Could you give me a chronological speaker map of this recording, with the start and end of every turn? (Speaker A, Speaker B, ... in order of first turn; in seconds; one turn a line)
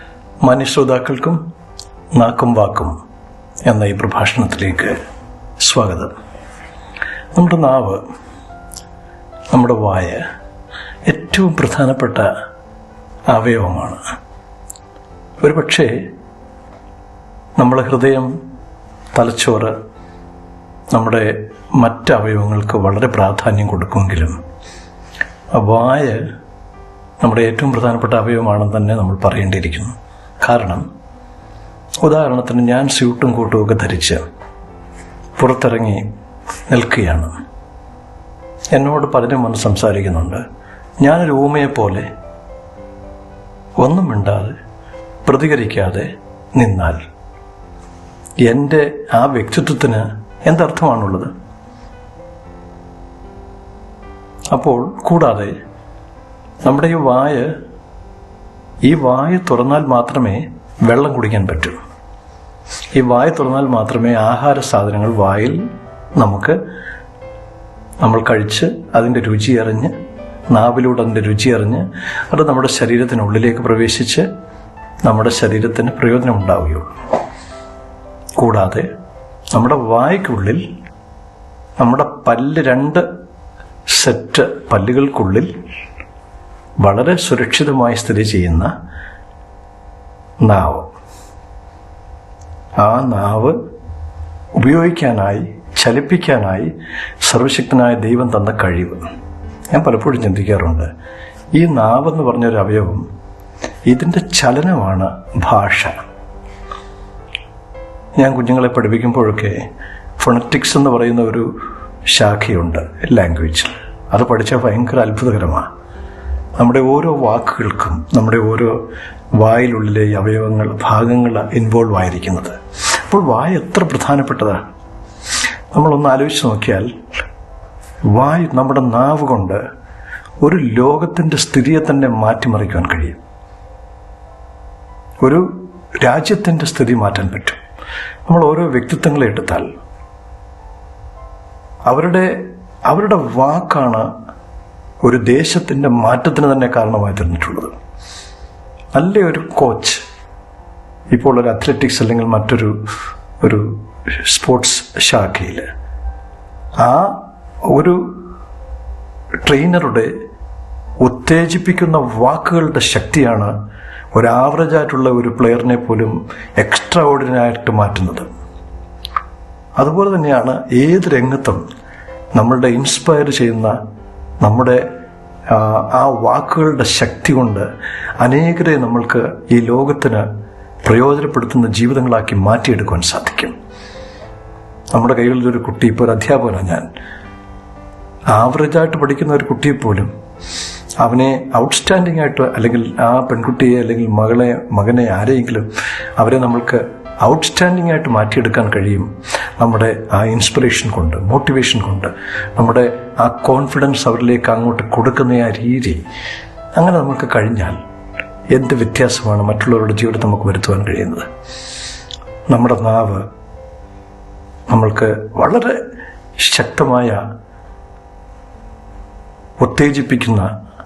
Speaker A: 0.4-1.4
Speaker A: 2.1-3.0
Speaker A: 3.6-5.0
Speaker A: 5.6-6.1
Speaker A: 7.3-8.0
Speaker A: 9.5-10.2
Speaker A: 11.1-12.3
Speaker A: 13.3-14.0
Speaker A: 15.4-16.0
Speaker A: 17.6-18.3
Speaker A: 19.1-19.7
Speaker A: 20.9-24.4
Speaker A: 25.5-26.2
Speaker A: 27.2-30.8
Speaker A: 32.0-34.2
Speaker A: 35.4-36.0
Speaker A: 36.7-37.3
Speaker A: 38.7-40.4
Speaker A: 41.0-42.1
Speaker A: 43.8-44.5
Speaker A: 45.2-47.0
Speaker A: 48.4-51.3
Speaker A: 54.5-55.5
Speaker A: 56.6-57.5
Speaker A: 58.8-61.8
Speaker A: 63.0-65.6
Speaker A: 66.2-66.6
Speaker A: 68.0-69.9
Speaker A: 70.5-74.2
Speaker A: 75.0-76.9
Speaker A: 78.4-78.9
Speaker A: 79.5-80.6
Speaker A: 81.8-83.0
Speaker A: 83.9-85.5
Speaker A: 86.8-88.7
Speaker A: 90.4-90.9
Speaker A: 92.8-93.6
Speaker A: 94.6-96.7
Speaker A: 97.2-99.0
Speaker A: 99.7-100.9
Speaker A: 101.5-103.0
Speaker A: 103.9-105.9
Speaker A: 108.2-109.6
Speaker A: 110.2-111.5
Speaker A: 112.1-115.7
Speaker A: 116.6-118.8
Speaker A: 119.4-124.6
Speaker A: 125.7-126.9
Speaker A: 128.1-129.6
Speaker A: 130.4-133.2
Speaker A: 135.2-135.5
Speaker A: 136.0-137.6
Speaker A: 138.2-139.7
Speaker A: 141.9-142.3
Speaker A: 142.9-144.1
Speaker A: 145.0-147.8
Speaker A: 148.9-150.0
Speaker A: 151.1-152.8
Speaker A: 153.4-155.7
Speaker A: 156.8-158.1
Speaker A: 159.4-160.1
Speaker A: 161.0-163.5
Speaker A: 164.1-168.3
Speaker A: 169.8-171.6
Speaker A: 172.3-173.8
Speaker A: 174.4-174.8
Speaker A: 175.5-177.7
Speaker A: 178.2-180.2
Speaker A: 180.8-183.5
Speaker A: 184.9-186.9
Speaker A: 188.3-190.1
Speaker A: 191.0-206.0
Speaker A: 206.8-207.8
Speaker A: 208.5-211.2
Speaker A: 212.5-213.2
Speaker A: 214.7-215.8
Speaker A: 216.4-217.2
Speaker A: 219.6-220.5